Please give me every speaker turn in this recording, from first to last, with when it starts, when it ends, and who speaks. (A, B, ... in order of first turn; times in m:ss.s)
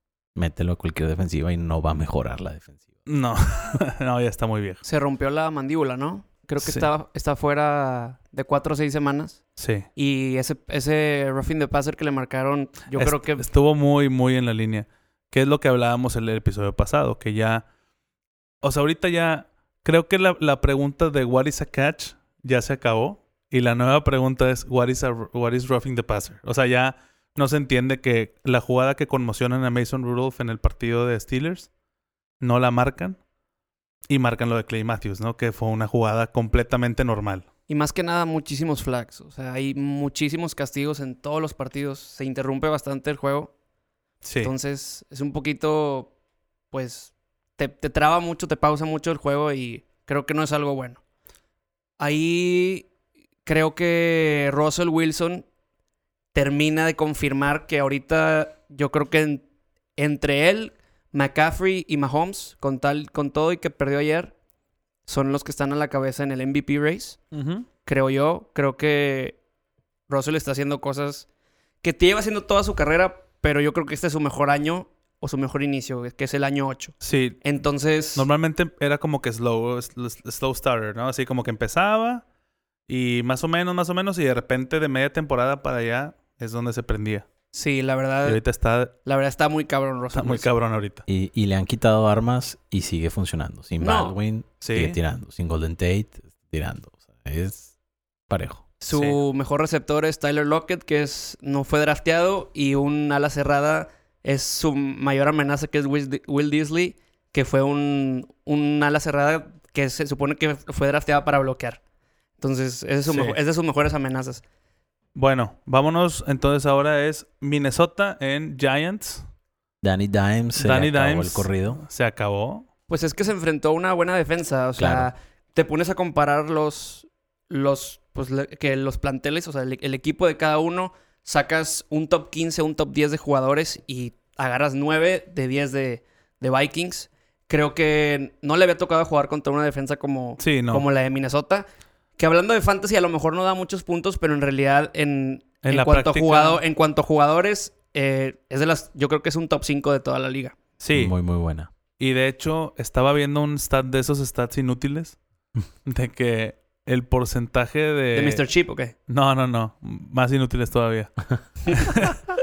0:00.4-0:02.9 A
0:03.1-0:04.8 B
0:04.8-0:09.4 C
0:06.6-0:06.9 B
0:09.6-0:09.9 B
0:10.0-0:13.4 C
0:12.9-0:17.6 B
0:18.6-0:31.7 B
0:32.4-0:33.2 B
0:34.1-0:37.5 B
0:37.7-0:43.5 C
0:44.2-0:44.5 B
0:44.4-0:46.1 C
0:46.7-0:51.0 C
0:52.0-0:52.9 C
0:53.4-0:55.4 C
0:56.3-0:59.4 C
1:00.0-1:04.3 C
1:05.1-1:07.2 C
1:07.3-1:07.7 B
1:07.8-1:09.4 C
1:10.1-1:11.3 C
1:11.8-1:18.3 C
1:17.0-1:17.4 B
1:18.2-1:22.2 B
1:22.9-1:27.3 B
1:27.5-1:28.4 C
1:28.2-1:28.9 B
1:29.0-1:30.5 C
1:30.1-1:31.0 B
1:31.1-1:37.7 A
1:33.8-1:34.2 C
1:34.6-1:35.0 B
1:38.3-1:38.7 A
1:38.8-1:51.8 C
1:38.9-1:39.2 B
1:52.4-1:54.4 C
1:53.1-1:53.4 B
1:55.2-1:59.3 B
1:59.8-2:01.8 A
2:00.6-2:02.7 B
2:02.9-2:21.6 C
2:04.8-2:05.1 A
2:20.4-2:20.8 B
2:22.2-2:30.6 C
2:25.6-2:26.6 B
2:30.8-2:31.2 B
2:30.9-2:31.7 A
2:32.0-2:35.2 B
2:35.8-2:38.4 B
2:38.1-2:38.9 C
2:39.1-2:42.2 B
2:41.7-2:42.0 C